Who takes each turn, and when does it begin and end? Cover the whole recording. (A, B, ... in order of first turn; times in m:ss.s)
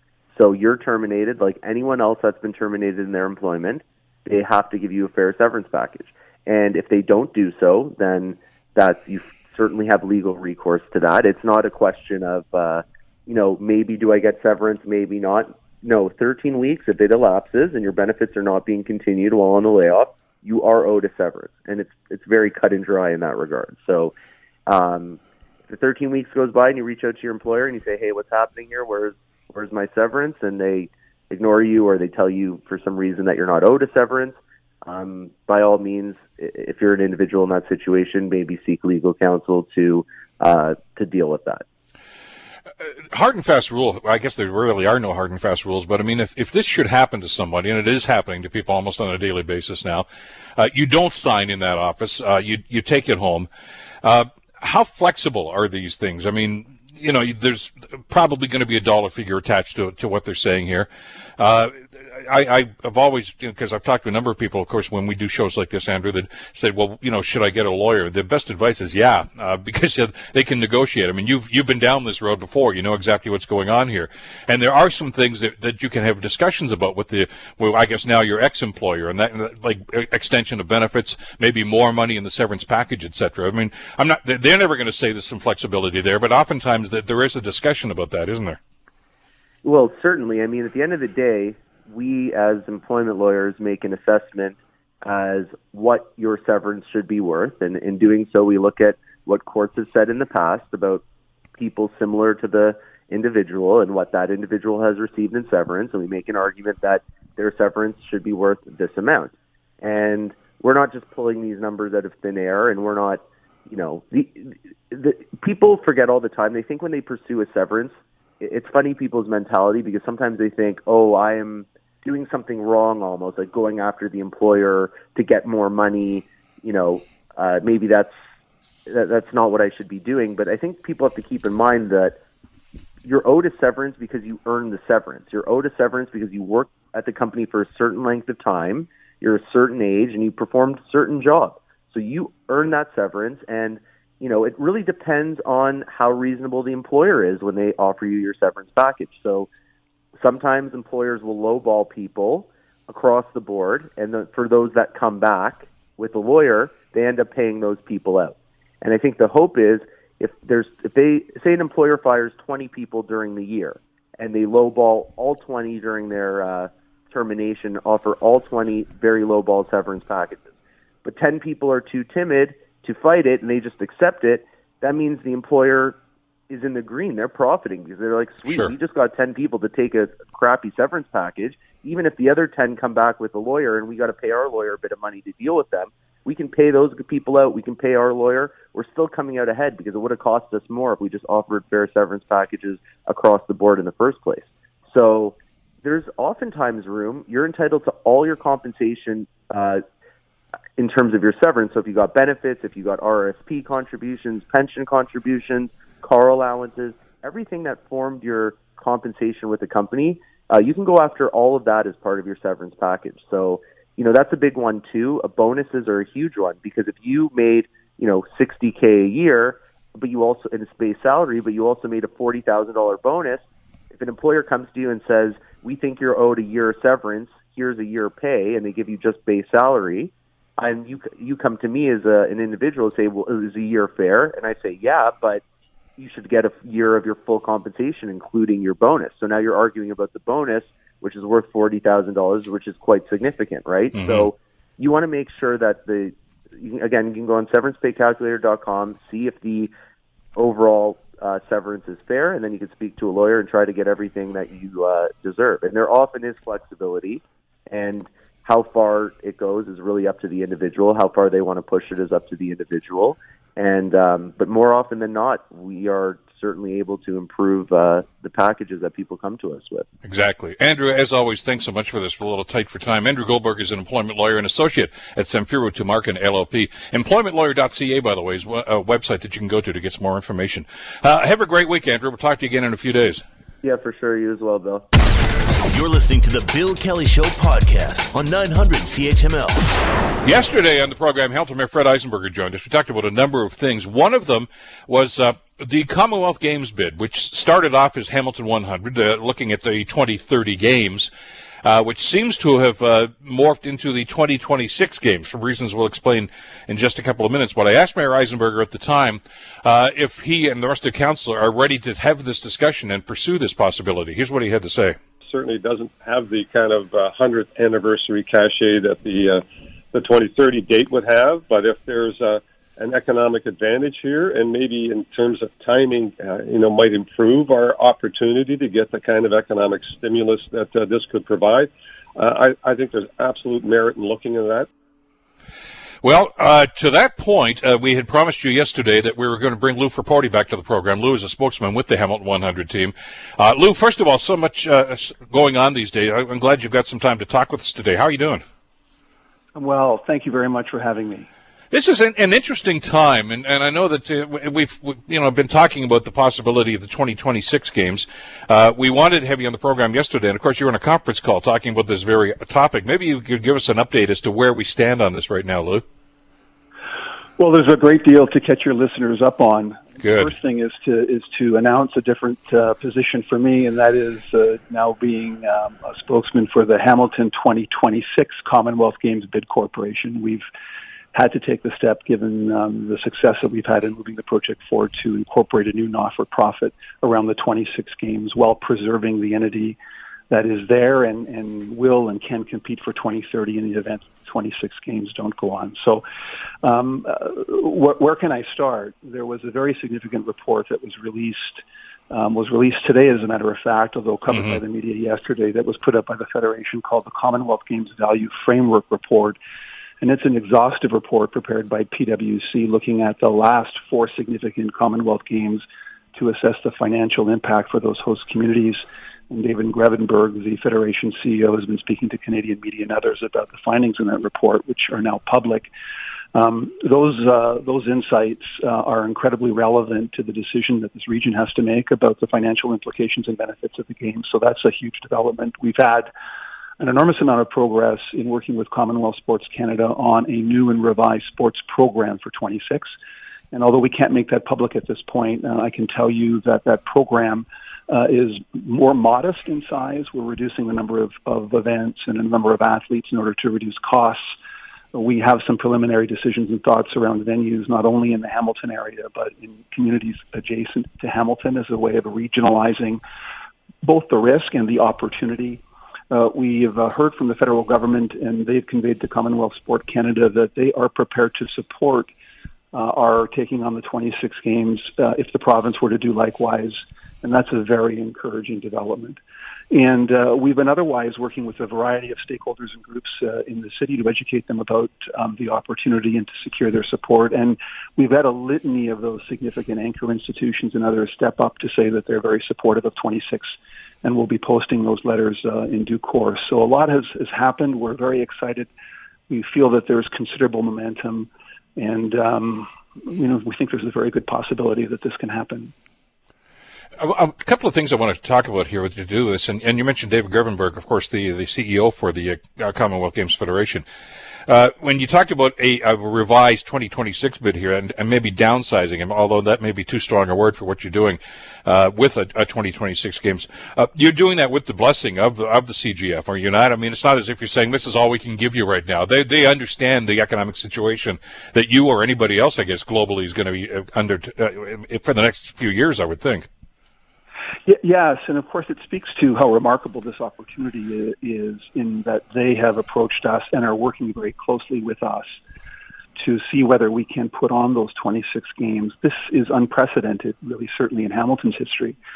0:00.3-0:24.1 A
0:24.7-0:41.6 A
0:43.1-0:50.0 B
0:50.6-0:53.5 B
0:54.0-1:28.6 B
1:29.6-1:41.0 A
1:41.6-2:08.1 A
2:08.9-2:12.2 A
2:13.0-2:29.5 A
2:30.2-2:50.5 A
2:51.0-2:56.0 A
2:56.5-3:19.8 A
2:58.5-2:58.7 B
3:20.8-3:55.4 A
3:56.0-4:09.7 A
4:03.9-4:04.3 B
4:10.4-4:29.9 A
4:30.0-4:43.2 B
4:43.6-4:44.9 A
4:44.9-4:50.1 C
4:50.2-5:01.1 B
5:01.6-5:15.0 B
5:15.2-5:34.7 D
5:36.0-5:48.4 B
5:49.5-5:51.3 E
5:51.7-6:05.8 B
6:07.4-6:20.4 E
6:10.0-6:10.3 B
6:21.1-6:29.8 E
6:30.3-6:36.0 E
6:36.6-6:49.4 E
6:50.0-7:05.7 E
7:06.3-7:16.1 E
7:16.8-7:22.9 E
7:23.5-7:34.3 E
7:34.9-7:43.0 E
7:43.8-7:52.1 E
7:52.7-7:59.2 E
7:59.7-8:18.7 E
8:19.3-8:25.7 E
8:27.0-8:33.8 B
8:34.5-8:56.5 B
8:57.6-9:05.4 E
9:06.2-9:12.0 E